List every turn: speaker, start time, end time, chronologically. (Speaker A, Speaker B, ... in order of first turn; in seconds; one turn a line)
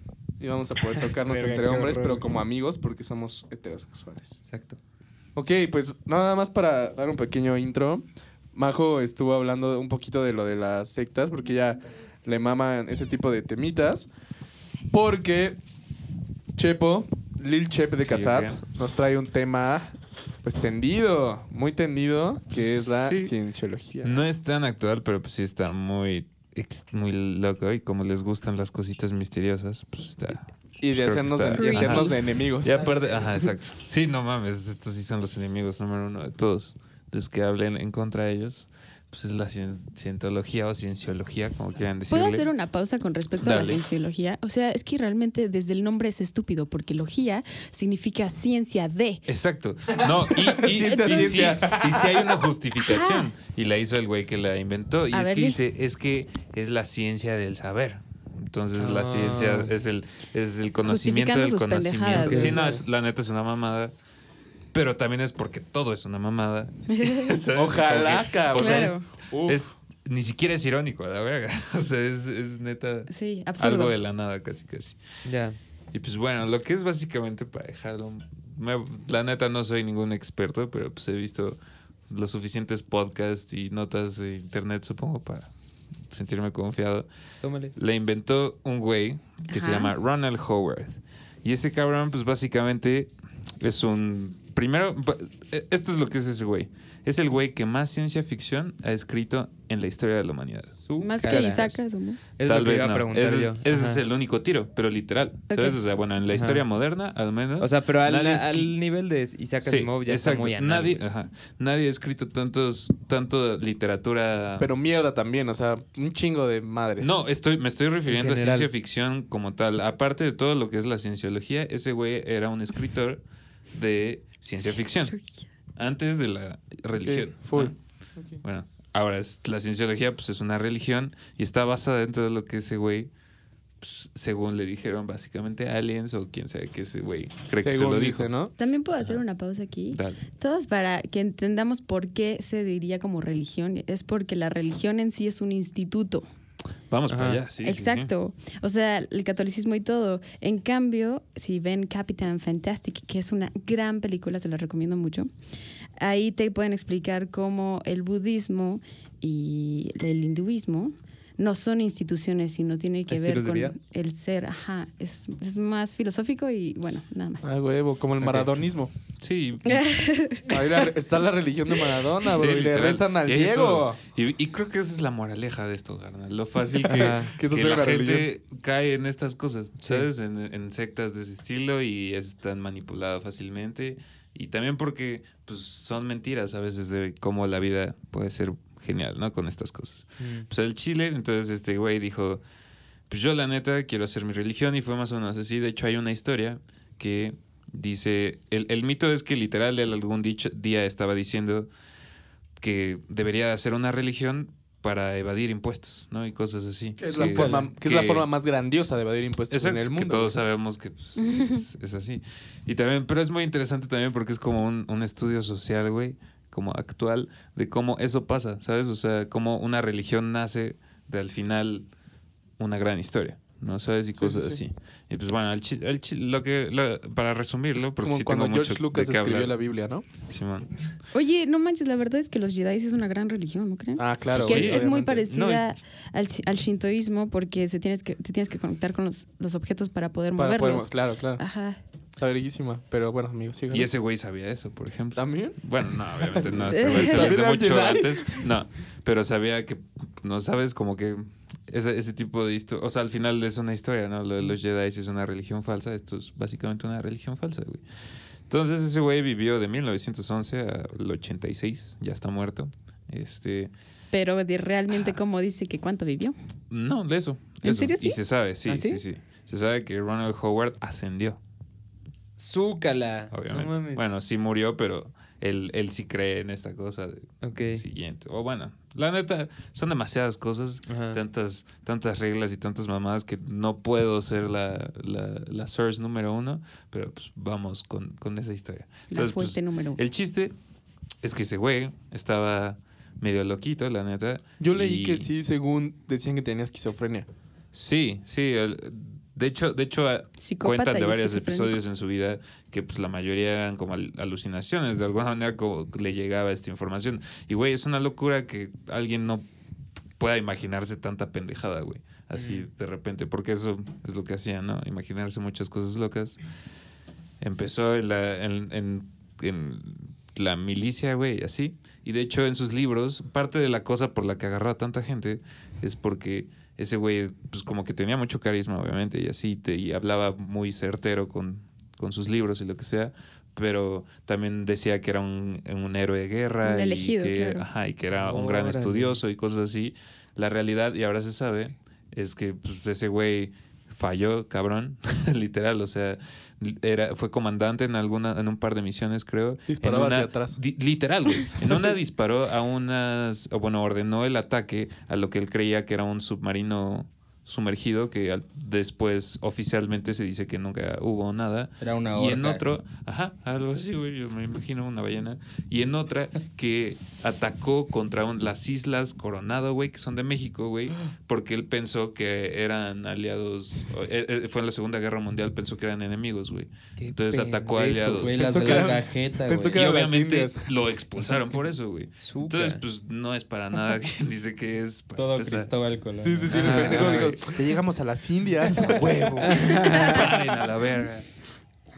Speaker A: 0.4-4.4
Speaker B: 1.3-2.3
Speaker B: 4.5-4.8
Speaker A: 5.4-14.1
Speaker A: 14.9-15.6
Speaker A: 16.6-24.2
Speaker C: 18.1-18.6
Speaker C: 22.6-23.3
Speaker C: 24.0-42.5
Speaker A: 30.8-32.9
Speaker D: 31.6-32.2
Speaker D: 42.1-49.2
Speaker C: 43.4-43.8
Speaker C: 49.3-63.9
Speaker A: 50.4-52.1
Speaker D: 50.8-51.6
Speaker D: 52.8-53.3
Speaker D: 55.1-55.6
Speaker B: 58.8-59.7
Speaker D: 60.9-62.7
Speaker B: 62.2-62.7
Speaker A: 62.5-62.8
Speaker C: 64.7-75.0
Speaker D: 66.9-67.4
Speaker A: 67.5-69.6
Speaker D: 68.6-69.0
Speaker D: 73.1-73.9
Speaker B: 75.2-75.6
Speaker C: 75.9-81.6
Speaker C: 82.1-85.5
Speaker C: 86.1-87.1
Speaker B: 87.4-87.7
Speaker C: 87.8-101.8
Speaker D: 89.5-89.9
Speaker B: 100.8-101.8
Speaker D: 101.0-102.2
Speaker B: 102.4-104.0
Speaker C: 102.4-108.8
Speaker D: 105.5-105.8
Speaker B: 106.3-106.6
Speaker B: 107.6-111.0
Speaker C: 109.6-114.7
Speaker A: 114.6-117.1
Speaker C: 117.0-123.2
Speaker B: 118.1-118.7
Speaker C: 123.7-125.2
Speaker D: 125.0-125.4
Speaker C: 125.8-127.8
Speaker A: 127.0-128.4
Speaker C: 128.4-133.1
Speaker C: 133.8-138.3
Speaker A: 137.6-138.5
Speaker D: 138.6-146.2
Speaker C: 139.9-140.2
Speaker C: 146.9-148.1
Speaker B: 147.1-147.4
Speaker D: 147.6-155.3
Speaker D: 156.0-167.5
Speaker B: 163.1-163.8
Speaker A: 167.4-168.9
Speaker B: 168.2-168.5
Speaker C: 169.2-169.9
Speaker D: 169.7-170.9
Speaker A: 170.5-174.0
Speaker C: 172.2-192.4
Speaker A: 176.8-178.3
Speaker B: 176.9-177.3
Speaker B: 190.2-190.5
Speaker C: 193.1-201.7
Speaker C: 202.6-208.3
Speaker A: 207.0-210.4
Speaker B: 207.2-207.7
Speaker C: 209.5-221.9
Speaker D: 211.2-211.6
Speaker C: 222.6-229.5
Speaker A: 224.2-224.6
Speaker A: 228.0-230.1
Speaker C: 230.3-230.8
Speaker D: 231.1-241.8
Speaker A: 234.0-235.2
Speaker C: 234.3-235.7
Speaker A: 240.4-241.4
Speaker A: 242.1-243.9
Speaker C: 243.7-257.8
Speaker A: 245.2-245.6
Speaker A: 246.2-248.5
Speaker D: 246.7-247.4
Speaker C: 258.5-263.7
Speaker D: 264.1-266.4
Speaker C: 266.7-271.4
Speaker D: 267.6-268.2
Speaker B: 268.7-269.0
Speaker B: 272.4-274.1
Speaker C: 273.3-290.5
Speaker B: 277.4-277.8
Speaker B: 280.9-281.2
Speaker D: 289.1-290.0
Speaker C: 291.2-295.3
Speaker A: 294.6-297.3
Speaker C: 297.7-309.4
Speaker D: 300.4-301.8
Speaker C: 310.2-316.4
Speaker B: 312.4-312.6
Speaker C: 317.4-379.0
Speaker D: 336.6-337.6
Speaker B: 338.2-339.2
Speaker A: 349.7-350.6
Speaker E: 361.8-362.6
Speaker B: 377.0-378.6
Speaker E: 378.2-379.8
Speaker A: 378.3-380.7
Speaker C: 379.7-385.7
Speaker B: 382.2-382.8
Speaker E: 385.2-386.9
Speaker A: 386.2-390.3
Speaker B: 386.5-387.3
Speaker C: 386.5-387.6
Speaker C: 388.8-391.3
Speaker B: 389.5-390.2
Speaker D: 389.7-390.3